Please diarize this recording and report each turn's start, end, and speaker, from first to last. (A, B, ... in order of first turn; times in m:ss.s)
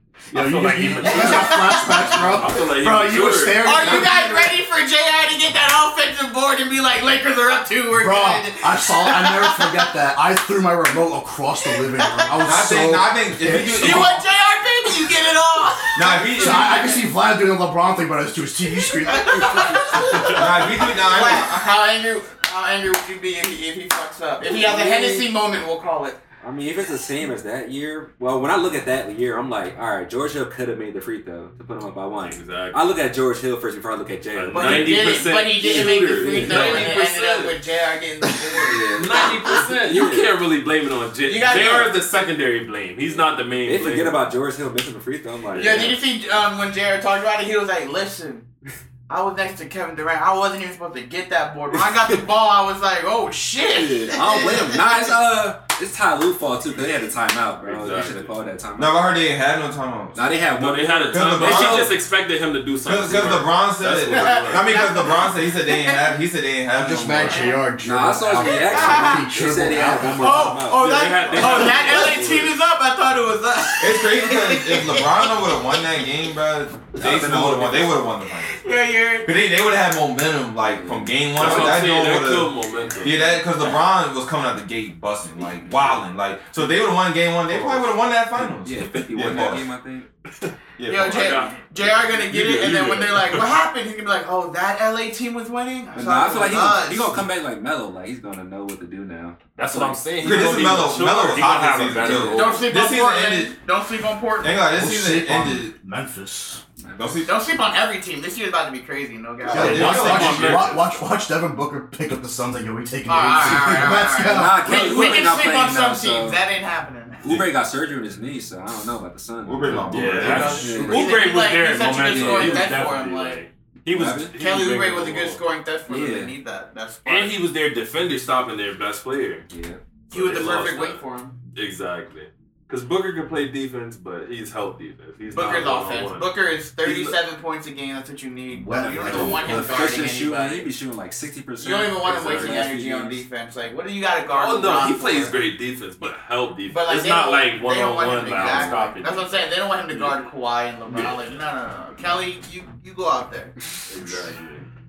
0:00.3-0:04.5 A
0:00.3-0:03.8 B
0:01.0-0:02.6 C
0:03.6-0:09.9 C
0:07.9-0:14.2 A
0:11.7-0:12.7 C
0:12.4-0:14.0 D
0:13.6-0:17.0 C
0:15.9-0:16.9 D
0:16.4-0:20.3 A
0:18.8-0:26.2 C
0:20.3-0:21.7 D
0:24.4-0:25.3 E
0:26.4-0:36.9 E
0:32.2-0:32.8 B
0:34.3-0:37.6 B
0:34.5-0:39.5 C
0:38.3-0:40.3 E
0:38.8-0:44.3 B
0:41.2-0:42.0 C
0:43.6-0:46.0 E
0:45.5-0:45.9 B
0:45.5-0:48.4 C
0:49.1-0:55.2 C
0:51.7-0:52.2 E
0:53.7-0:59.0 E
0:57.6-0:58.4 B
0:58.8-1:00.2 D
1:00.1-1:01.9 E
1:00.5-1:04.6 B
1:01.1-1:02.0 D
1:02.8-1:07.5 D
1:04.0-1:06.1 C
1:06.7-1:10.5 A
1:07.2-1:07.6 C
1:07.8-1:12.3 E
1:08.5-1:09.2 C
1:10.1-1:16.1 C
1:10.8-1:12.5 B
1:13.8-1:18.6 D
1:16.9-1:18.0 E
1:18.4-1:19.3 C
1:19.2-1:29.7 D
1:20.6-1:21.8 E
1:21.4-1:23.3 B
1:22.7-1:23.3 E
1:25.4-1:26.1 E
1:27.5-1:30.1 E
1:30.8-1:31.5 D
1:30.9-1:37.2 C
1:31.0-1:33.5 B
1:35.9-1:40.3 E
1:39.6-1:42.6 B
1:40.2-1:43.6 D
1:41.9-1:42.6 E
1:42.3-1:44.7 C
1:44.4-1:45.8 D
1:44.7-1:46.6 A
1:46.8-1:47.2 E
1:47.0-1:47.3 D
1:47.2-1:50.4 C
1:49.4-1:50.8 D
1:49.5-1:54.7 A
1:49.9-1:50.8 B
1:53.1-1:57.4 C
1:53.5-1:56.4 E
1:57.2-2:01.2 E
1:59.4-2:00.7 D
1:59.9-2:05.4 B
2:00.1-2:03.4 C
2:02.0-2:02.9 E
2:03.9-2:04.3 E
2:04.4-2:07.4 C
2:05.9-2:06.3 E
2:07.0-2:09.4 B
2:09.5-2:09.8 E
2:10.1-2:11.4 C
2:10.1-2:16.3 B
2:10.3-2:10.6 E
2:15.3-2:20.7 C
2:16.8-2:17.1 B
2:18.5-2:20.0 A
2:18.7-2:23.2 E
2:21.6-2:25.4 C
2:22.2-2:22.6 B
2:24.2-2:29.5 B
2:26.7-2:33.5 C
2:28.3-2:28.9 E
2:30.9-2:31.3 B
2:33.9-2:34.6 B